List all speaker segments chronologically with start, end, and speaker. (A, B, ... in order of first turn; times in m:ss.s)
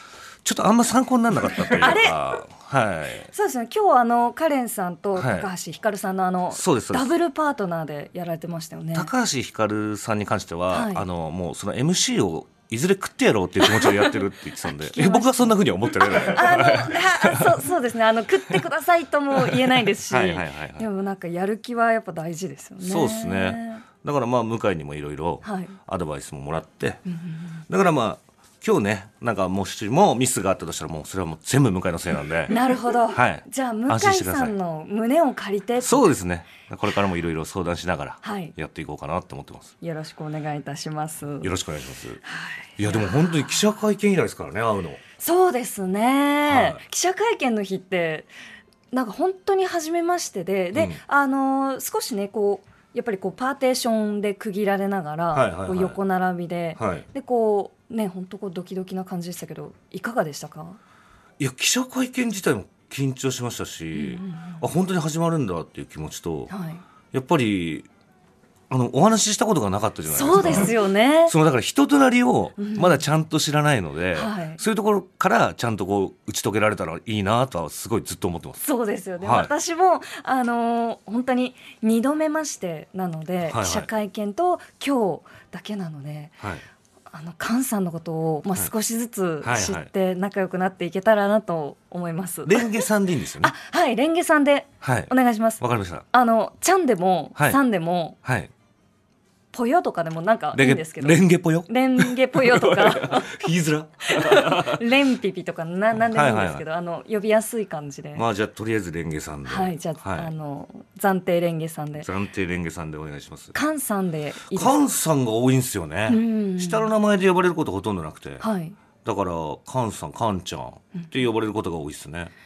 0:00.4-0:03.3 A
0:01.6-0:02.4 B
0:03.3-0:09.1 B
0:05.1-0:05.5 A
0:06.5-0:07.1 A
0:08.9-0:17.5 A
0:10.7-0:11.0 B
0:13.7-0:14.2 B
0:14.7-0:15.5 B
0:16.0-0:23.8 B
0:19.4-0:20.9 A
0:22.8-0:27.0 A
0:25.4-0:25.8 B
0:27.1-0:27.6 B
0:27.7-0:32.6 A
0:32.5-0:36.1 B
0:33.1-0:34.5 A
0:35.8-0:39.7 A
0:38.2-0:38.5 B
0:39.8-0:41.5 B
0:41.4-0:42.2 A
0:42.2-0:43.6 B
0:42.8-0:45.0 A
0:45.2-0:48.3 B
0:46.4-0:46.8 A
0:48.9-1:00.8 B
0:50.7-0:51.0 A
0:55.3-0:56.0 A
0:56.8-0:57.0 A
1:01.4-1:06.5 A
1:03.9-1:04.6 B
1:06.5-1:06.8 B
1:07.1-1:07.9 A
1:08.7-1:10.7 A
1:10.1-1:11.3 B
1:11.3-1:18.6 A
1:12.6-1:13.0 B
1:14.1-1:14.6 B
1:18.6-1:26.4 B
1:19.2-1:19.5 A
1:23.4-1:23.9 A
1:27.1-1:32.8 B
1:29.4-1:29.9 A
1:32.4-1:33.5 A
1:33.4-1:38.2 B
1:34.8-1:36.0 A
1:38.2-1:38.5 A
1:39.5-1:43.4 B
1:40.5-1:44.8 A
1:44.0-1:48.2 B
1:46.1-1:46.6 A
1:48.1-1:50.3 A
1:49.4-1:52.1 B
1:52.0-1:53.5 A
1:53.5-1:54.8 B
1:54.5-1:58.4 A
1:56.1-1:56.9 B
1:58.4-1:58.8 B
1:59.0-2:02.3 A